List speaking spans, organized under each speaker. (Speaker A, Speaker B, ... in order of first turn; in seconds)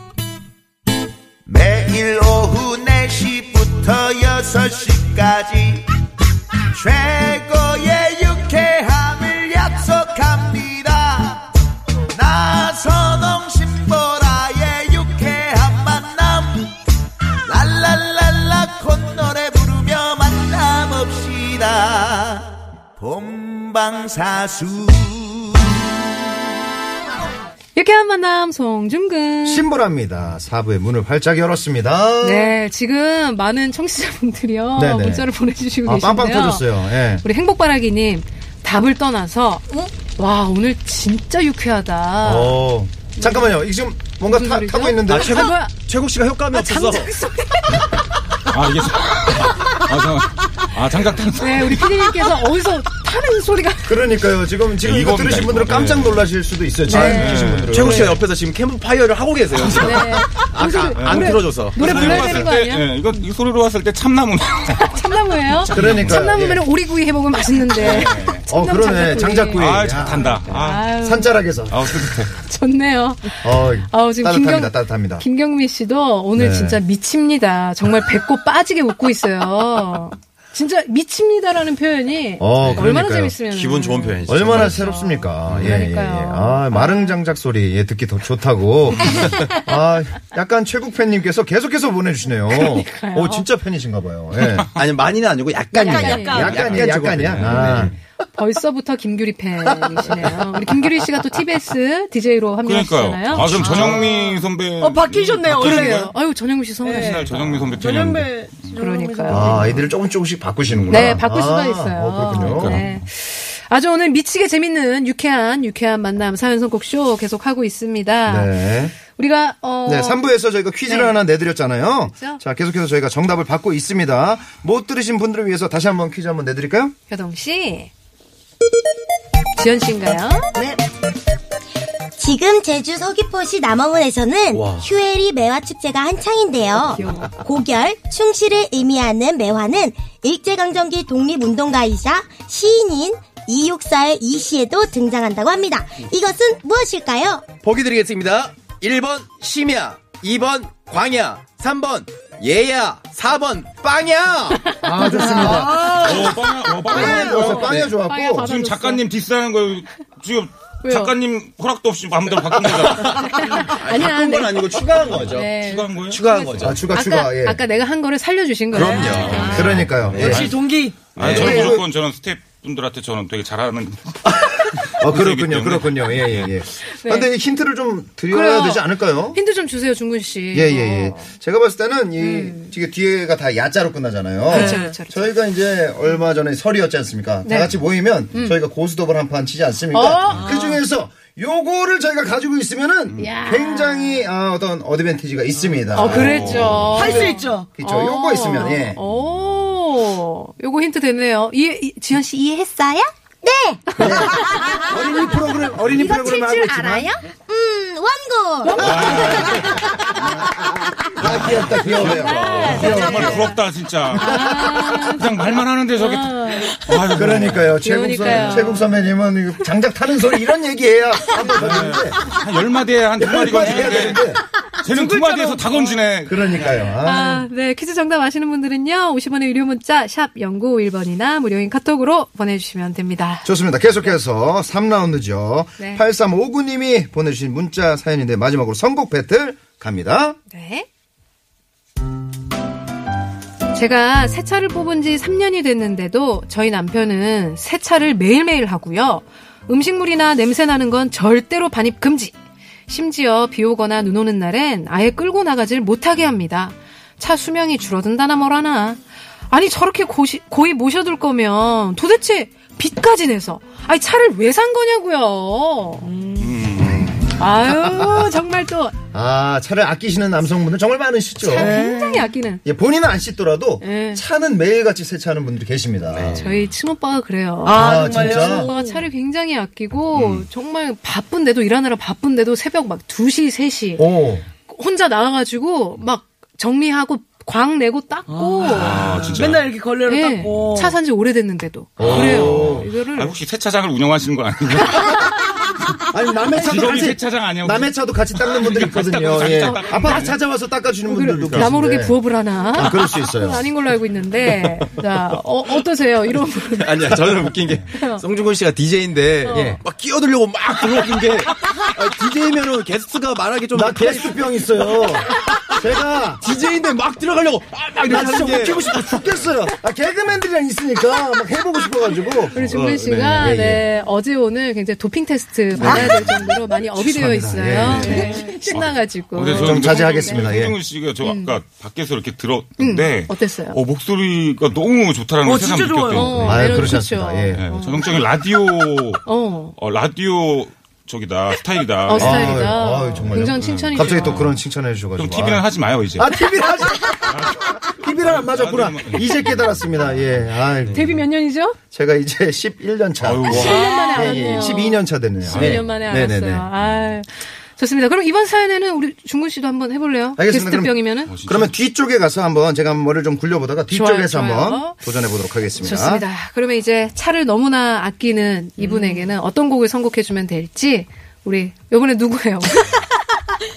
Speaker A: 1.5-5.8, 6.7-11.5, 12.1-16.7, 17.5-25.8
Speaker B: 27.8-29.7, 32.2-42.7, 43.2-43.6, 44.2-45.7, 46.5-47.9, 51.4-54.1, 56.9-57.5, 59.7-62.9, 64.7-71.4, 72.4-87.2, 92.5-93.5, 95.8-96.5, 97.4-103.6, 105.6-107.3, 108.7-109.7, 110.9-120.2, 120.9-121.2, 122.1-122.4, 127.1-127.9, 129.6-130.5, 154.9-155.7, 156.9-159.0, 160.8-161.2, 163.0-169.9, 177.0-177.3, 178.3-181.3, 182.2-182.7, 184.5-185.2, 187.4-187.7, 189.9-190.7, 193.2-194.3, 195.9-203.0, 204.0-204.3, 208.7-209.5, 212.0-213.6, 214.2-216.8, 217.8-219.0, 224.9-226.1, 227.0-233.5, 235.8-236.0, 240.5-240.9, 243.7-252.3, 252.9-259.0, 259.5-266.5, 267.1-268.9, 271.4-272.6, 273.8-274.2, 276.3-284.1, 284.7-289.2, 290.1-293.4, 299.6-300.3, 301.1-307.4, 307.9-308.2, 309.4-309.8, 322.5-330.5, 331.2-331.6, 332.8-333.8, 336.1-338.2, 339.3-339.8, 342.1-344.5, 350.9-351.8, 353.4-361.3, 363.9-365.0, 365.8-373.1
Speaker C: 29.4-32.6, 34.8-35.3, 35.8-37.2, 42.2-45.5, 53.9-58.2, 61.9-62.5, 65.7-66.6, 67.8-70.3, 71.0-71.9, 73.4-75.2, 76.3-76.8, 82.4-83.4, 84.2-94.8, 96.3-98.0, 103.3-104.1, 109.3-112.8, 118.3-118.9, 119.9-127.0, 154.8-156.3, 156.9-158.5, 166.6-167.6, 169.5-170.5, 171.2-171.9, 174.2-179.4, 180.5-199.0, 204.0-207.1, 208.8-210.2, 211.2-213.5, 214.4-214.7, 217.1-222.2, 223.2-224.4, 226.3-227.5, 233.4-240.4, 267.9-268.2, 269.1-271.8, 272.6-276.4, 277.7-278.7, 284.0-284.5, 292.0-292.9, 296.0-303.7, 309.5-309.8, 313.7-316.4, 318.1-323.9, 325.8-328.2, 329.6-330.8, 336.3-337.7, 342.1-345.6, 346.1-351.3, 351.9-356.7, 360.4-366.2
Speaker D: 45.1-47.1, 57.7-62.0, 82.6-83.0, 83.5-85.9, 94.7-98.0, 134.5-134.9, 147.6-155.0, 162.5-165.5, 166.1-166.9, 168.7-170.6, 171.2-171.6, 276.1-276.6, 306.8-315.7, 316.4-319.1, 327.8-328.3
Speaker E: 48.5-52.1, 54.8-56.3, 57.0-58.1, 59.6-60.1, 61.0-66.2, 67.8-68.4, 69.6-71.0, 71.7-72.4, 96.5-96.9, 102.6-106.1, 106.9-108.3, 110.7-111.2, 112.4-113.0, 155.4-163.7, 165.0-166.3, 168.9-170.5, 171.2-176.5, 196.1-197.2, 208.8-209.9, 211.2-217.7, 218.3-218.7, 221.4-224.3, 224.8-226.9, 266.4-267.3, 280.1-280.5, 288.7-289.7, 292.0-295.4, 296.5-300.4, 301.4-301.7, 328.1-337.0, 337.5-342.7, 343.3-344.6, 345.2-346.3, 347.3-350.1, 353.2-353.9, 355.5-355.9, 361.3-361.7
Speaker F: 95.7-96.5, 103.9-106.1, 106.8-109.8, 155.4-156.3, 169.2-169.7, 170.4-171.7, 184.5-184.9, 190.4-190.7, 196.9-197.7, 225.2-225.4, 271.5-272.3, 277.6-279.0, 288.3-291.0, 325.8-326.1, 327.9-328.5, 335.4-336.4, 353.8-354.7, 368.8-369.2
Speaker G: 132.2-147.5, 202.9-205.1, 205.9-209.7